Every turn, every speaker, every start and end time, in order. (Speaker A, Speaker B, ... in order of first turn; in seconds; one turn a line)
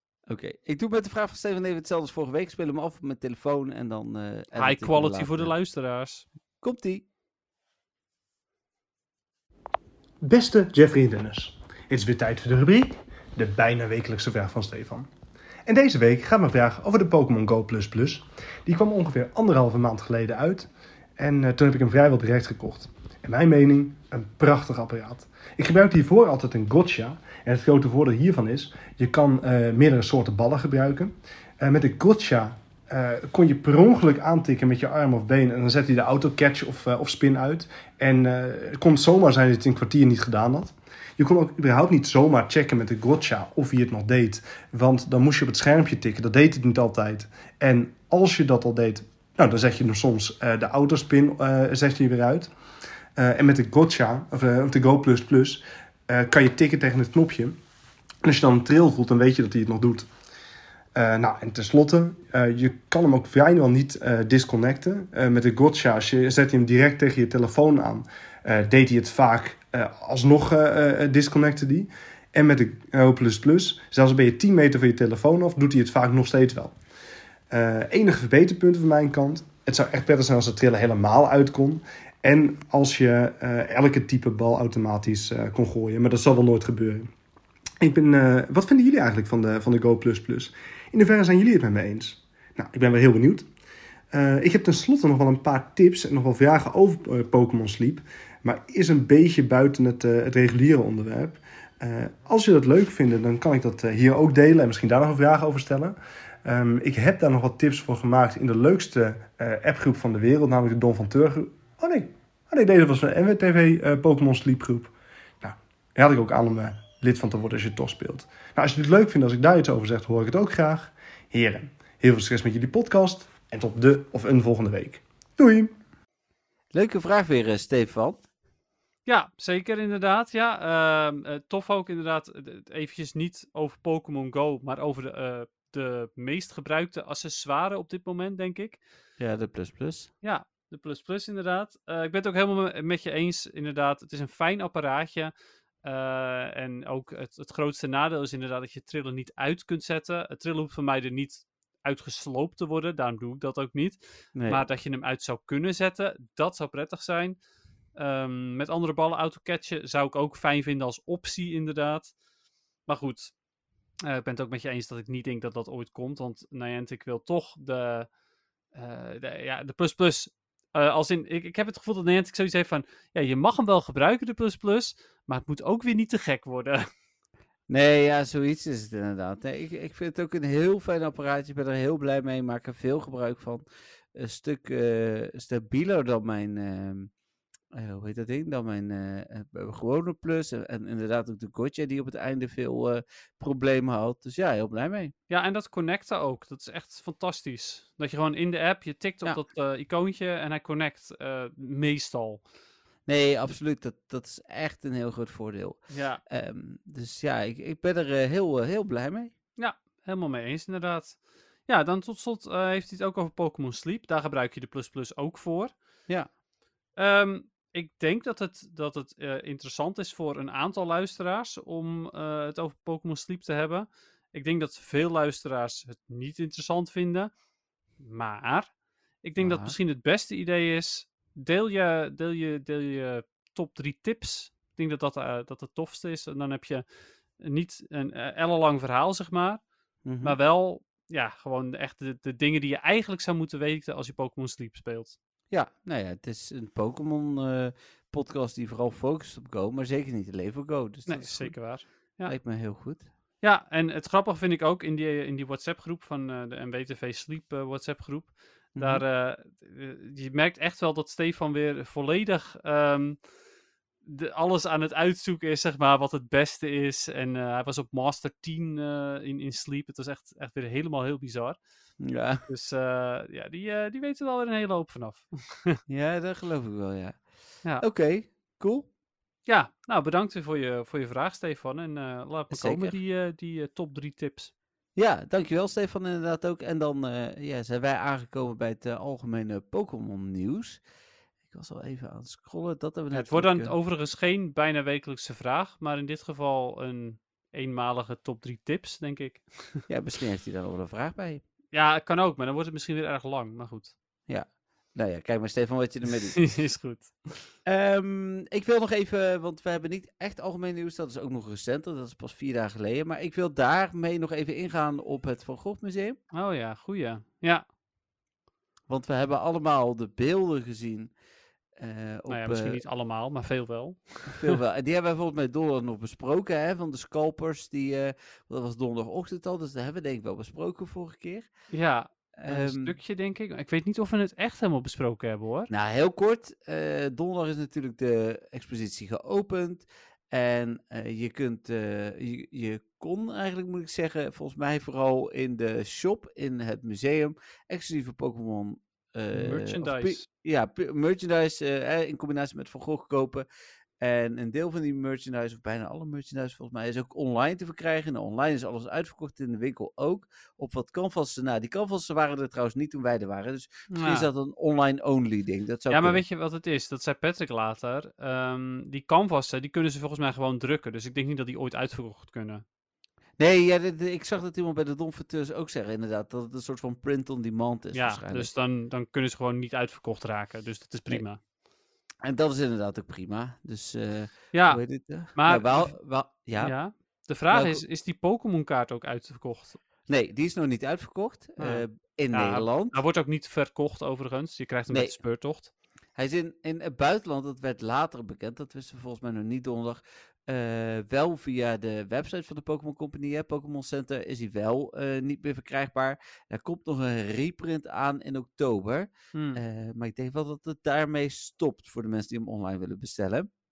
Speaker A: 0.3-5.5
Speaker B: 4.5-6.3
Speaker A: 6.6-7.0
Speaker C: 10.2-15.1
Speaker C: 15.7-52.5
Speaker C: 53.2-57.6
Speaker C: 58.2-60.1
Speaker C: 61.0-76.7
Speaker C: 77.5-87.1
Speaker C: 87.8-93.5
Speaker C: 94.1-125.7
Speaker A: 126.7-128.2
Speaker B: 129.1-138.8
Speaker A: 139.2-140.1
Speaker B: 140.2-145.3
Speaker B: 145.8-157.4
Speaker A: 154.3-154.6
Speaker B: 158.0-162.1
Speaker B: 162.9-163.3
Speaker B: 164.0-168.1
Speaker B: 168.7-176.9
Speaker A: 177.7-187.1
Speaker A: 187.7-195.1
Speaker B: 195.3-202.4
Speaker A: 203.1-209.3
Speaker B: 205.9-206.2
Speaker B: 209.6-215.7
Speaker B: 217.0-227.3
Speaker B: 228.0-228.7
Speaker B: 229.2-236.8
Speaker A: 229.4-229.7
Speaker B: 237.4-239.6
Speaker A: 240.1-240.4
Speaker B: 240.2-245.2
Speaker A: 245.5-251.6
Speaker B: 251.1-252.4
Speaker A: 252.3-253.1
Speaker B: 253.4-263.2
Speaker A: 258.8-259.0
Speaker B: 264.1-271.6
Speaker A: 272.0-272.4
Speaker B: 272.5-275.8
Speaker A: 275.9-277.2
Speaker A: 277.8-278.9
Speaker B: 279.5-284.5
Speaker A: 282.5-283.0
Speaker A: 285.0-290.8
Speaker A: 291.4-293.7
Speaker B: 293.1-299.8
Speaker A: 299.9-301.4
Speaker B: 301.7-303.9
Speaker A: 304.3-306.5
Speaker B: 306.4-307.5
Speaker A: 307.6-316.2
Speaker B: 316.3-317.6
Speaker A: 318.9-321.1
Speaker A: 321.8-322.8
Speaker B: 322.3-324.6
Speaker A: 324.3-331.5
Speaker B: 331.7-335.7
Speaker A: 332.4-333.0
Speaker A: 335.7-353.5
Speaker B: 349.3-350.3
Speaker A: 354.0-366.2
Speaker B: 363.9-364.3
Speaker B: 365.9-372.6
Speaker A: 373.4-378.5
Speaker B: 377.9-381.4
Speaker A: 382.2-386.8
Speaker B: 384.5-385.9
Speaker B: 386.6-389.8
Speaker A: 387.5-387.8
Speaker A: 390.1-393.0
Speaker B: 391.6-395.7
Speaker A: 394.9-395.2
Speaker A: 396.1-413.5
Speaker B: 409.3-409.6